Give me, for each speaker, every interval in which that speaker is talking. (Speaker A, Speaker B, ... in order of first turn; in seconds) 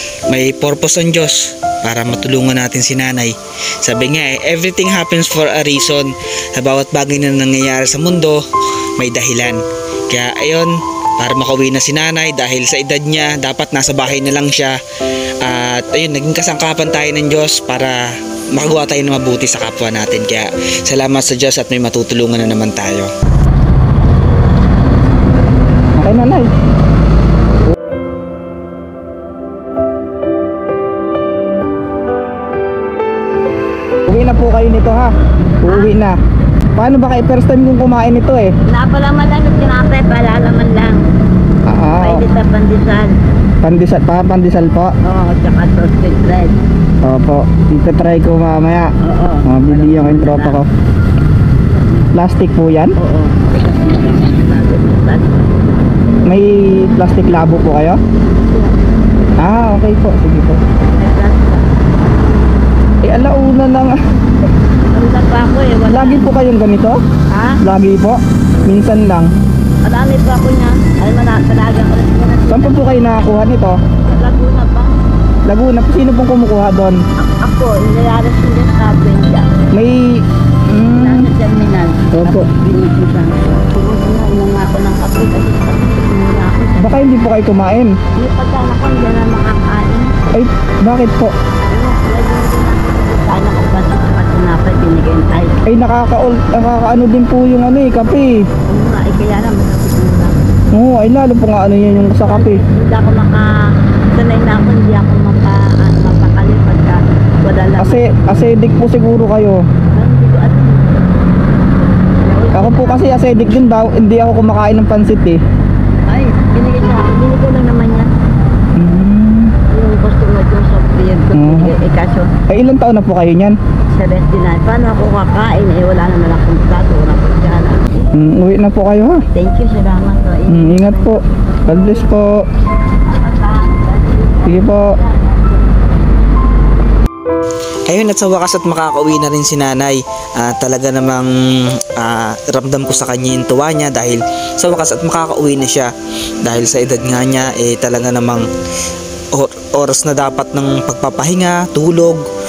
Speaker A: 0.3-14.8, 15.4-23.1, 26.0-26.5, 34.1-36.2, 36.8-38.5, 41.7-42.2, 43.6-45.0, 47.0-48.9, 49.5-50.7, 52.1-53.0, 56.2-58.0, 59.4-60.6, 63.0-64.0, 65.9-67.0, 67.6-69.3, 72.5-73.8, 75.5-77.0, 79.7-81.3, 82.1-82.5, 86.8-88.0, 90.3-91.3, 95.7-98.4, 100.7-102.6, 107.8-109.6, 112.5-115.4, 118.8-119.5, 121.3-121.8, 122.5-123.6, 128.1-129.2, 130.5-132.4, 134.4-134.9, 137.9-148.5, 149.3-152.2
Speaker B: 35.6-35.9, 38.7-41.0, 42.0-43.1, 45.0-46.6, 49.0-50.6, 51.8-52.1, 53.0-55.7, 58.5-58.7, 60.8-61.6, 64.9-66.3, 67.3-67.6, 69.8-73.1, 74.0-75.0, 77.2-79.5, 80.9-86.9, 88.2-90.1, 91.7-95.6, 98.7-100.4, 102.1-103.5, 104.1-108.3, 109.9-111.1, 112.2-113.1, 116.1-118.1, 119.7-122.3, 123.9-128.1, 129.3-132.2, 133.0-135.8